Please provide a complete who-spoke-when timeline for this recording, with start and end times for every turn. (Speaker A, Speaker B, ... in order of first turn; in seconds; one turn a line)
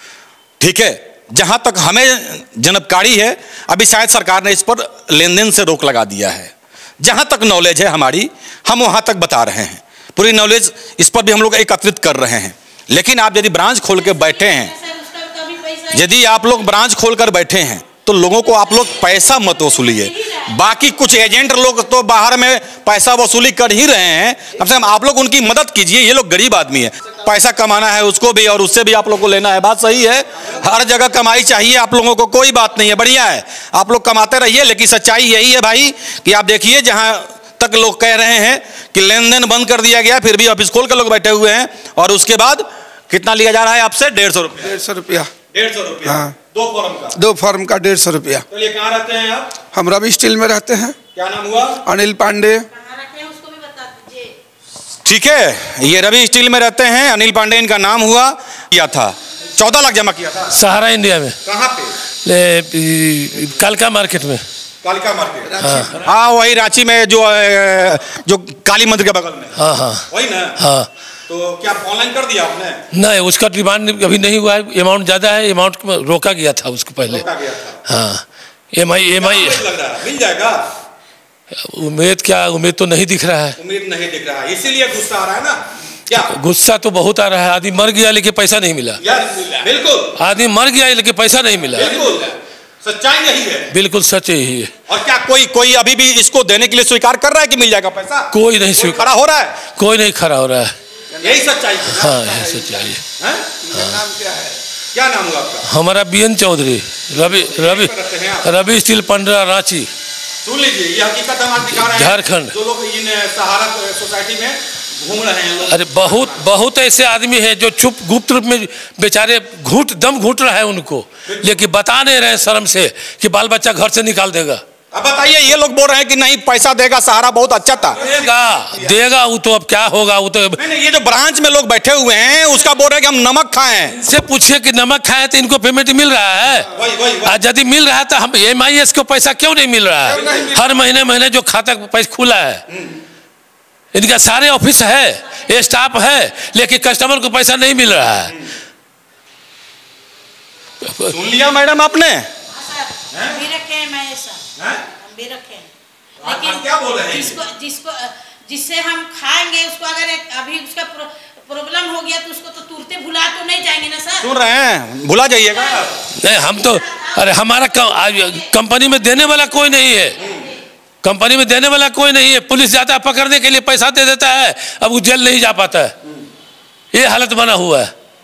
Speaker A: 0.6-14.7
Speaker B: 14.0-16.4
Speaker A: 15.9-44.8
Speaker B: 18.5-20.5
Speaker C: 44.6-45.3
Speaker A: 45.5-47.2
Speaker C: 46.0-46.4
Speaker C: 47.1-48.5
Speaker A: 48.5-49.5
Speaker C: 49.7-51.0
Speaker A: 51.1-51.8
Speaker C: 51.9-52.7
Speaker B: 52.7-54.4
Speaker A: 55.0-60.6
Speaker D: 60.5-61.4
Speaker A: 61.4-61.9
Speaker D: 62.2-64.4
Speaker A: 64.8-69.5
Speaker D: 65.6-66.0
Speaker D: 69.6-70.1
Speaker A: 70.1-70.5
Speaker D: 70.6-70.9
Speaker A: 71.3-72.8
Speaker D: 72.9-77.2
Speaker A: 77.1-77.8
Speaker D: 77.8-79.7
Speaker A: 79.2-80.6
Speaker D: 81.6-83.6
Speaker A: 83.6-86.3
Speaker D: 86.3-89.0
Speaker A: 89.0-90.1
Speaker D: 90.2-92.0
Speaker A: 91.7-93.7
Speaker D: 93.7-94.7
Speaker A: 94.9-99.6
Speaker D: 98.3-99.1
Speaker D: 99.7-100.8
Speaker A: 101.2-102.2
Speaker D: 101.9-103.0
Speaker C: 102.3-102.8
Speaker A: 103.2-103.6
Speaker C: 103.7-104.6
Speaker D: 103.7-104.0
Speaker A: 104.9-105.6
Speaker D: 105.7-109.9
Speaker A: 107.3-108.5
Speaker A: 110.4-116.4
Speaker D: 111.6-112.5
Speaker D: 115.7-124.6
Speaker A: 121.3-121.6
Speaker A: 124.9-128.9
Speaker D: 128.0-130.6
Speaker A: 130.6-133.9
Speaker D: 133.9-136.7
Speaker A: 136.8-137.4
Speaker D: 137.2-142.6
Speaker A: 140.1-140.7
Speaker D: 143.9-148.4
Speaker D: 150.8-151.1
Speaker A: 151.1-152.3
Speaker B: 152.5-155.7
Speaker A: 153.1-153.5
Speaker A: 154.6-154.8
Speaker A: 156.2-157.4
Speaker B: 156.2-164.3
Speaker A: 164.2-165.9
Speaker B: 165.5-165.9
Speaker D: 166.1-170.2
Speaker B: 166.6-167.1
Speaker B: 167.8-168.4
Speaker B: 170.3-170.6
Speaker D: 171.0-175.9
Speaker D: 176.9-177.9